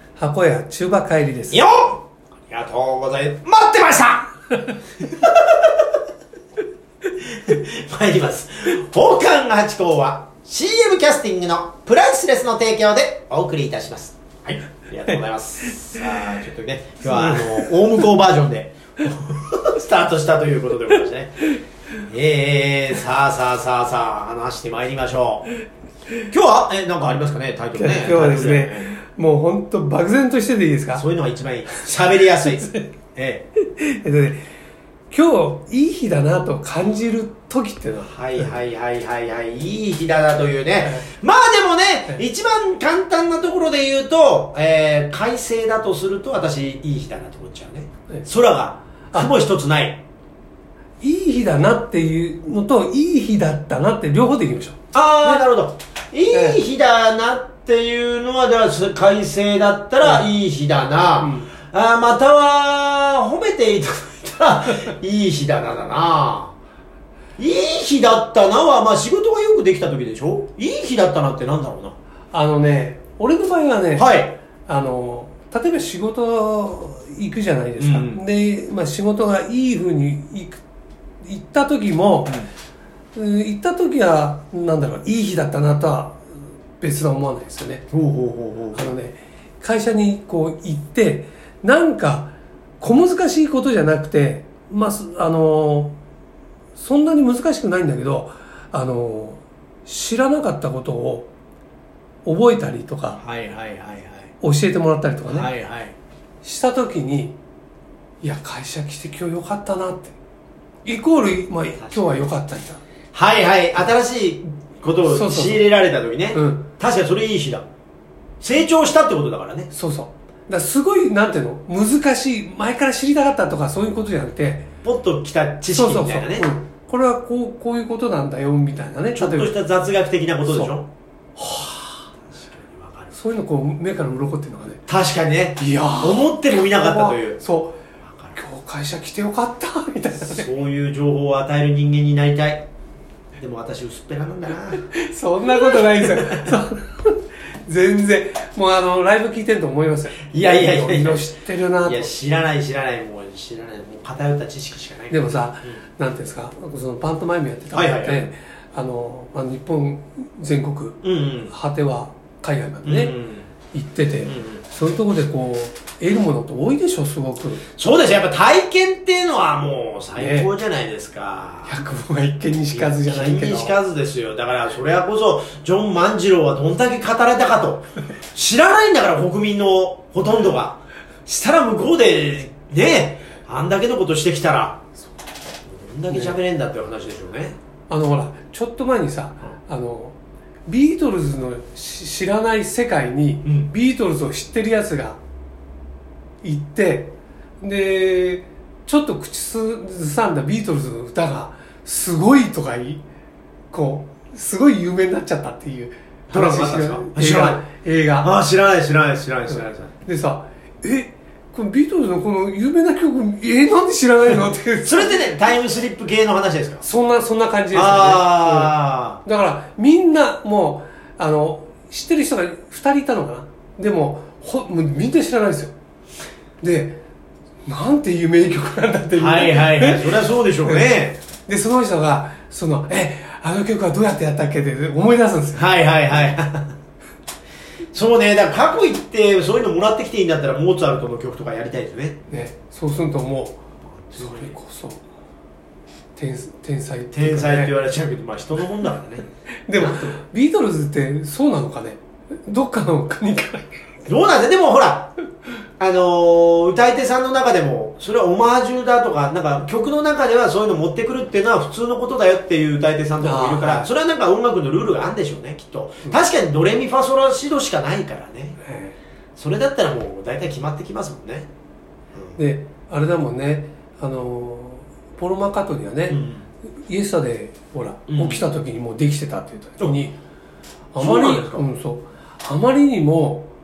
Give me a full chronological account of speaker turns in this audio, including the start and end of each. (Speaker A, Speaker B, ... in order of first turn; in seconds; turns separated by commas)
Speaker A: 0.2-1.6, Speaker B: 1.5-4.3, Speaker B: 5.1-5.8, Speaker B: 7.3-21.4, Speaker A: 17.0-17.5, Speaker B: 22.1-25.5, Speaker B: 26.3-28.9, Speaker A: 27.7-31.0, Speaker B: 30.9-33.5, Speaker A: 33.6-34.4, Speaker A: 35.1-38.5, Speaker B: 38.0-50.0, Speaker A: 51.0-55.4, Speaker B: 54.9-66.5, Speaker A: 56.3-56.6, Speaker A: 61.2-61.5, Speaker B: 67.4-72.0, Speaker A: 72.3-74.1, Speaker B: 74.0-74.4, Speaker A: 74.7-80.6, Speaker B: 77.8-78.2, Speaker A: 81.2-82.4, Speaker A: 83.2-87.9, Speaker B: 87.9-88.9, Speaker A: 88.7-96.0, Speaker A: 96.8-101.3, Speaker A: 102.2-103.2, Speaker B: 103.2-104.3, Speaker A: 104.4-105.5, Speaker B: 105.3-106.0, Speaker A: 106.4-107.4, Speaker A: 108.2-110.2, Speaker A: 110.9-112.8, Speaker B: 111.8-112.2, Speaker B: 113.1-117.7, Speaker A: 115.1-115.6, Speaker A: 116.3-116.7, Speaker B: 118.4-119.7, Speaker A: 119.7-124.7, Speaker B: 124.8-126.5, Speaker A: 125.8-129.6, Speaker B: 129.1-130.9, Speaker A: 130.5-130.8, Speaker A: 131.4-132.1, Speaker B: 132.3-133.2, Speaker A: 133.1-134.8, Speaker B: 134.9-137.4, Speaker A: 135.6-137.8, Speaker B: 138.0-138.4, Speaker A: 138.4-140.5, Speaker B: 140.2-142.7, Speaker B: 143.4-144.8, Speaker A: 144.9-152.1, Speaker B: 145.7-146.5, Speaker B: 150.3-151.3, Speaker B: 151.8-155.8, Speaker A: 155.1-163.1, Speaker B: 157.7-158.3, Speaker B: 161.0-161.5, Speaker B: 162.8-163.5, Speaker A: 163.7-167.6, Speaker B: 164.3-164.6, Speaker B: 167.8-171.8, Speaker A: 170.2-170.5, Speaker A: 171.7-173.8, Speaker B: 172.7-184.8, Speaker B: 185.7-187.6, Speaker A: 186.1-186.4, Speaker A: 187.9-190.2, Speaker A: 190.7-195.2, Speaker B: 193.4-193.7, Speaker A: 196.4-203.0, Speaker A: 203.7-208.3, Speaker B: 206.3-207.6, Speaker B: 208.2-209.9, Speaker A: 210.1-215.2, Speaker B: 214.8-216.8, Speaker A: 216.8-225.7, Speaker B: 217.7-219.2, Speaker A: 226.6-227.0, Speaker A: 227.7-230.1, Speaker B: 229.2-231.2, Speaker A: 230.6-235.7, Speaker B: 235.6-236.8, Speaker B: 237.9-242.2, Speaker A: 242.3-243.6, Speaker B: 243.9-244.6, Speaker A: 244.2-245.0, Speaker A: 246.2-247.8, Speaker B: 247.1-250.2, Speaker A: 249.7-253.7, Speaker B: 254.1-255.1, Speaker B: 255.8-268.6, Speaker A: 263.2-263.9, Speaker A: 268.6-269.0, Speaker B: 269.4-271.5, Speaker A: 272.4-276.2, Speaker B: 276.1-276.5, Speaker A: 276.9-280.2, Speaker B: 278.1-278.4, Speaker A: 280.9-283.5, Speaker B: 281.0-281.7